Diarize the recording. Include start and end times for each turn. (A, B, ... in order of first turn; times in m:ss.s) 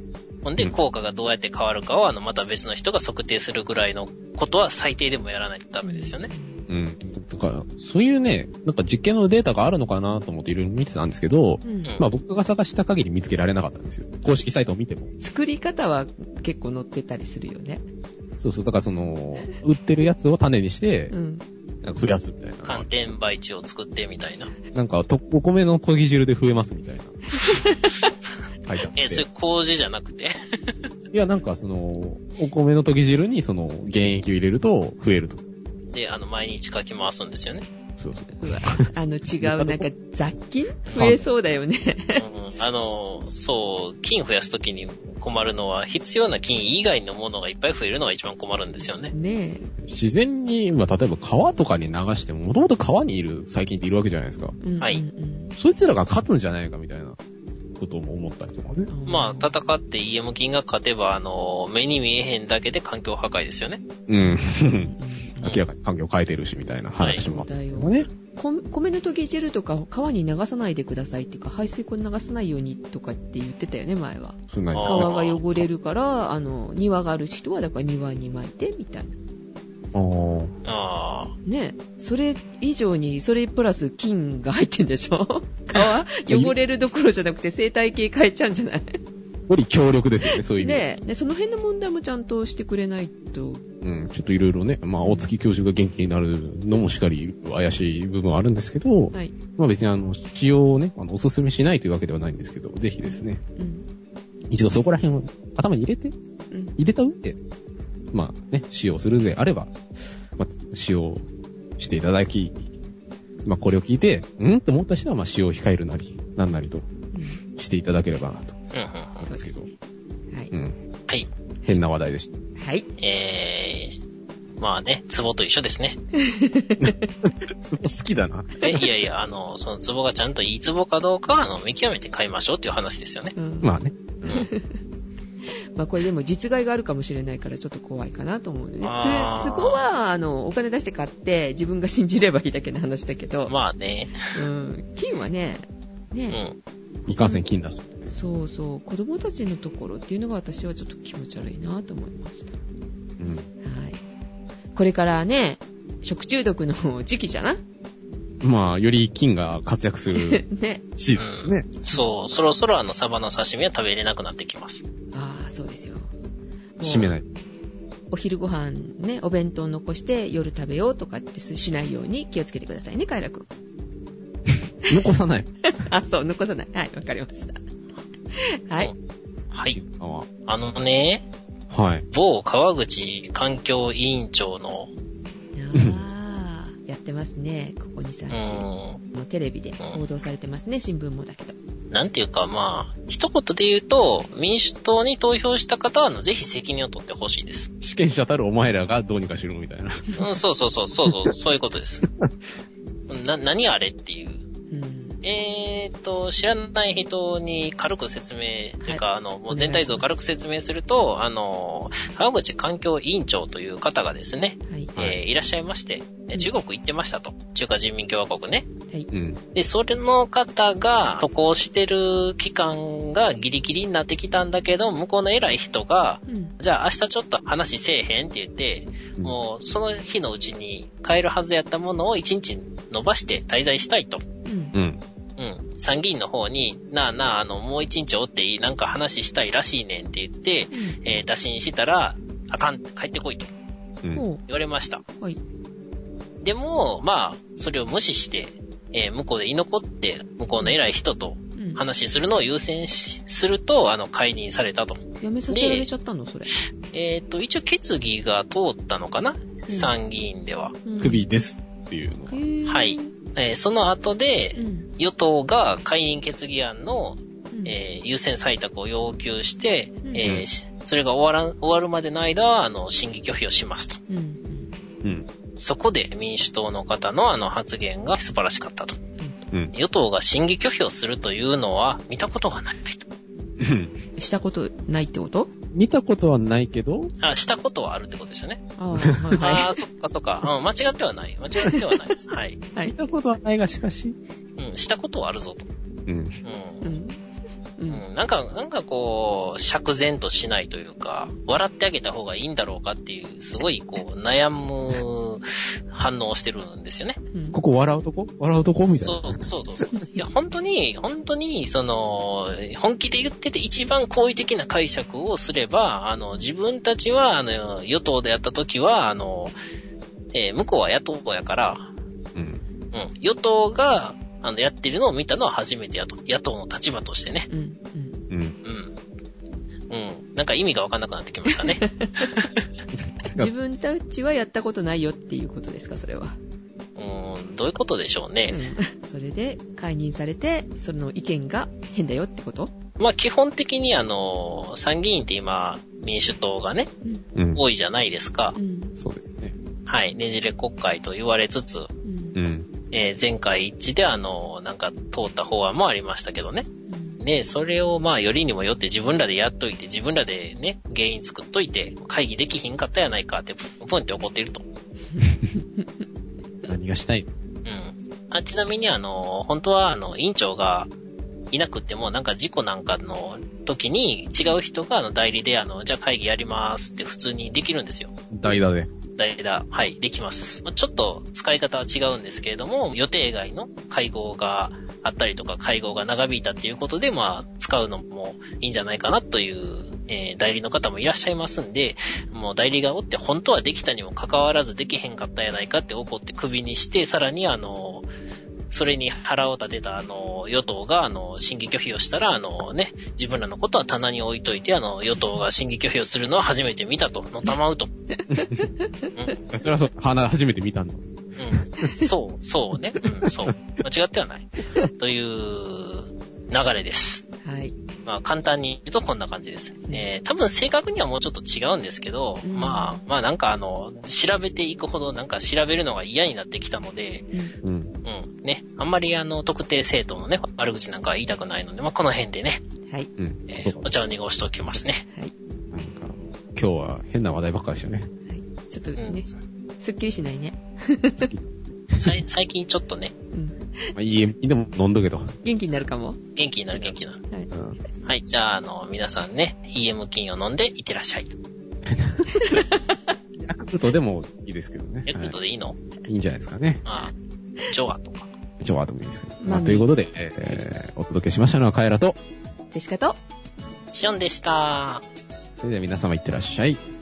0:00.4-0:06.3 A
0:05.8-0:06.7 B
0:06.7-0:15.1 C
0:11.6-0:12.0 B
0:15.2-0:17.8 B
0:18.4-0:21.1 C
0:21.1-0:21.4 B
0:21.8-0:22.9 C
0:22.6-0:24.5 A
0:24.7-0:27.2 C
0:27.4-0:27.9 B
0:28.6-0:29.2 C
0:29.0-0:30.8 A
0:31.1-0:35.4 C
0:35.9-0:37.6 A
0:38.0-0:38.9 C
0:38.4-0:42.2 B
0:39.4-0:39.9 C
0:41.0-0:41.2 C
0:42.2-0:49.1 A
0:48.8-0:49.7 B
0:49.8-0:54.6 C
0:54.6-0:55.5 B
0:55.6-0:57.2 C
0:57.8-0:58.9 C
0:58.9-0:59.5 B
0:59.0-1:03.8 A
1:04.1-1:08.1 C
1:04.3-1:05.5 B
1:07.2-1:19.1 B
1:14.5-1:15.6 C
1:14.7-1:15.4 A
1:19.9-1:20.5 C
1:20.6-1:21.3 A
1:21.4-1:29.0 B
1:26.3-1:26.6 C
1:29.5-1:30.8 C
1:30.3-1:33.6 B
1:33.8-1:43.4 C
1:35.0-1:35.3 B
1:43.0-1:43.8 B
1:44.5-1:46.1 C
1:46.5-1:46.8 B
1:46.8-1:47.4 C
1:48.1-1:49.7 C
1:50.4-1:51.2 C
1:51.8-1:52.7 C
1:53.4-1:56.8 C
1:57.1-1:57.4 B
1:57.5-1:58.6 C
1:58.7-1:59.2 A
1:59.2-1:59.6 C
1:59.2-1:59.7 B
2:01.6-2:02.3 C
2:02.6-2:02.8 B
2:03.0-2:04.0 A
2:04.6-2:06.0 A
2:06.2-2:07.1 B
2:06.8-2:08.5 C
2:08.6-2:13.3 A
2:13.4-2:13.7 B
2:13.6-2:14.4 C
2:14.3-2:14.8 B
2:15.7-2:23.5 B
2:18.8-2:19.8 A
2:23.5-2:24.4 A
2:24.3-2:26.4 B
2:26.3-2:26.6 A
2:27.1-2:27.4 B
2:27.1-2:28.1 C
2:28.1-2:32.5 B
2:33.2-2:33.5 C
2:33.6-2:34.0 B
2:34.7-2:37.6 B
2:38.4-2:40.4 C
2:40.1-2:40.8 B
2:41.0-2:41.7 C
2:41.2-2:44.8 A
2:45.1-2:46.1 B
2:46.8-2:47.2 B
2:46.8-2:47.2 C
2:48.1-2:53.4 B
2:54.9-2:55.5 C
2:55.7-2:57.6 B
2:58.3-2:58.9 B
2:59.5-2:59.8 A
2:59.7-3:00.3 C
3:00.5-3:01.2 A
3:01.7-3:02.1 C
3:02.1-3:04.9 A
3:05.5-3:11.6 B
3:05.7-3:06.0 C
3:08.3-3:09.0 A
3:11.9-3:17.7 A
3:17.8-3:20.1 C
3:20.2-3:22.0 A
3:21.1-3:21.3 C
3:23.1-3:24.4 A
3:24.7-3:25.2 B
3:25.2-3:38.7 A
3:28.8-3:30.1 B
3:34.6-3:34.9 B
3:39.1-3:39.4 C
3:39.5-3:54.2 A
3:46.3-3:46.5 B
3:54.4-3:54.7 B
3:54.7-3:55.0 C
3:55.4-4:03.5 A
4:00.7-4:01.0 B
4:04.1-4:04.4 B
4:04.4-4:05.0 A
4:06.4-4:15.8 A
4:11.6-4:11.8 B
4:15.2-4:16.5 B
4:16.5-4:20.8 A
4:19.7-4:19.9 B
4:20.8-4:21.2 B
4:21.0-4:22.4 C
4:22.3-4:23.1 B
4:22.6-4:34.0 A
4:24.6-4:24.9 B
4:30.2-4:30.4 C
4:34.1-4:34.7 B
4:35.6-4:39.0 A
4:39.2-4:39.5 B
4:39.7-4:43.0 A
4:43.6-4:44.0 C
4:44.2-4:45.5 B
4:45.7-4:47.1 C
4:47.2-4:48.6 A
4:48.8-4:49.7 B
4:49.4-4:52.6 A
4:51.6-4:52.2 B
4:52.9-4:54.2 C
4:54.6-4:55.7 A
4:56.1-4:56.4 C
4:56.4-4:57.0 A
4:56.8-4:57.2 B
4:57.9-5:07.2 A
5:07.3-5:07.6 B
5:07.5-5:09.4 C
5:08.8-5:19.6 A
5:20.3-5:21.9 A
5:22.3-5:22.6 C
5:22.9-5:27.5 A
5:27.5-5:28.2 B
5:28.3-5:28.6 C
5:28.6-5:28.9 A
5:29.9-5:32.6 A
5:31.5-5:32.3 B
5:33.0-5:33.5 C
5:33.3-5:36.4 B
5:37.0-5:38.6 A
5:38.5-5:42.7 B
5:43.0-5:46.9 A
5:47.4-5:47.6 C
5:47.5-5:48.6 A
5:48.5-5:48.9 B
5:49.0-5:49.5 C
5:49.8-5:51.9 A
5:52.0-5:52.4 B
5:52.3-5:52.7 C
5:52.9-5:56.7 A
5:56.9-5:57.2 B
5:57.2-6:04.6 A
6:05.1-6:05.9 B
6:06.7-6:07.3 C
6:07.6-6:10.9 A
6:11.5-6:18.1 A
6:18.3-6:18.9 C
6:19.2-6:38.1 A
6:38.7-6:47.9 A
6:48.1-6:49.1 B
6:48.3-6:48.7 C
6:49.1-6:49.4 A
6:49.5-6:51.1 C
6:51.4-6:57.2 A
6:53.2-6:53.8 C
6:57.4-6:57.7 B
6:58.0-7:07.3 A
7:02.4-7:03.0 B
7:07.6-7:07.9 C
7:08.0-7:12.6 A
7:13.2-7:13.9 C
7:13.5-7:15.0 A
7:15.1-7:15.3 B
7:15.7-7:18.1 C
7:18.3-7:21.3 B
7:19.0-7:19.4 A
7:21.2-7:22.2 C
7:22.0-7:23.1 A
7:23.3-7:23.9 B
7:23.9-7:25.4 C
7:25.4-7:26.2 B
7:26.4-7:27.2 A
7:27.5-7:27.8 C
7:28.0-7:31.4 A
7:31.8-7:32.6 C
7:32.3-7:32.9 B
7:33.4-7:35.3 C
7:35.1-7:35.8 A
7:36.1-7:36.8 C
7:36.8-7:37.1 A
7:37.7-7:38.3 A
7:38.6-7:42.2 C
7:39.4-7:39.9 B
7:42.7-7:43.2 B
7:43.9-7:45.0 A
7:45.6-7:46.8 C